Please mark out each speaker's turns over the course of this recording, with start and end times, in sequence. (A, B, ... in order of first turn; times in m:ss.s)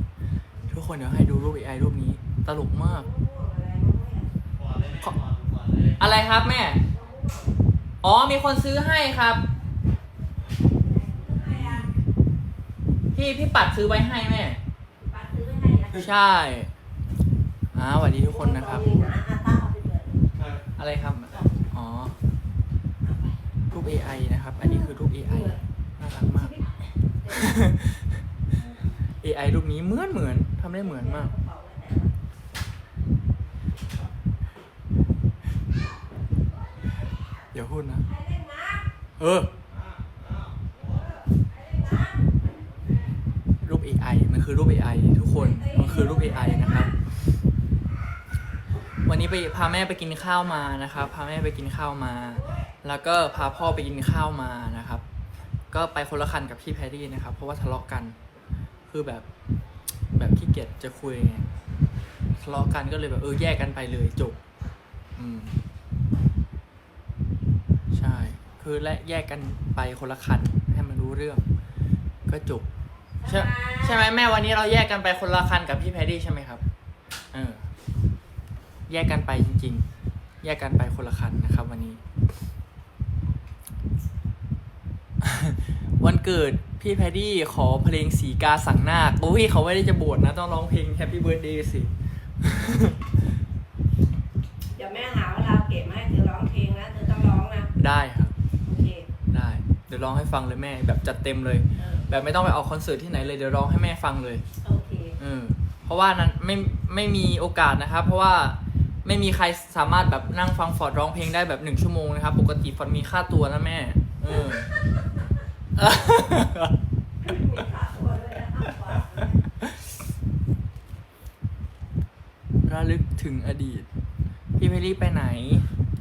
0:00.7-0:03.1 A
0:02.8-0:04.4 B
0:05.0-0:05.2 A
0:06.0-0:06.8 A
0:06.9-0:07.6 B
0:08.0-0:09.4 A
0:10.8-0:11.9 B
0:11.5-0:11.9 A
0:13.1-0:14.6 A
0:15.0-0:16.1 B
0:16.0-0:16.7 A
0:17.7-0:18.9 A
0:18.3-0:20.3 B
0:20.8-0:22.2 A
0:23.1-0:23.3 B
0:23.7-0:26.6 A
0:24.6-0:25.6 B
0:26.4-0:26.7 B
0:27.3-0:28.2 A
0:29.2-0:31.3 A
0:30.8-0:32.1 B
0:37.5-0:38.1 A
0:38.1-0:38.9 B
0:39.2-0:39.5 A
0:40.9-0:42.2 B
0:43.6-0:47.0 A
0:45.4-0:47.0 B
0:49.0-0:55.0 A
0:55.7-0:58.2 A
0:58.9-0:59.3 A
1:00.2-1:01.5 A
1:02.4-1:04.4 A
1:05.2-1:05.6 A
1:07.9-1:11.4 A
1:12.3-1:12.7 A
1:13.2-1:14.1 B
1:13.2-1:16.6 A
1:17.3-1:17.7 A
1:18.9-1:19.9 A
1:20.4-1:22.0 A
1:25.2-1:33.2 A
1:34.7-1:37.7 B
1:37.8-1:38.4 A
1:38.7-1:39.1 B
1:39.3-1:44.4 A
1:41.8-1:42.0 B
1:44.6-1:45.2 B
1:45.2-1:54.8 A
1:55.8-1:56.8 A
1:57.2-1:59.4 B
2:02.7-2:03.9 A
2:04.6-2:05.7 A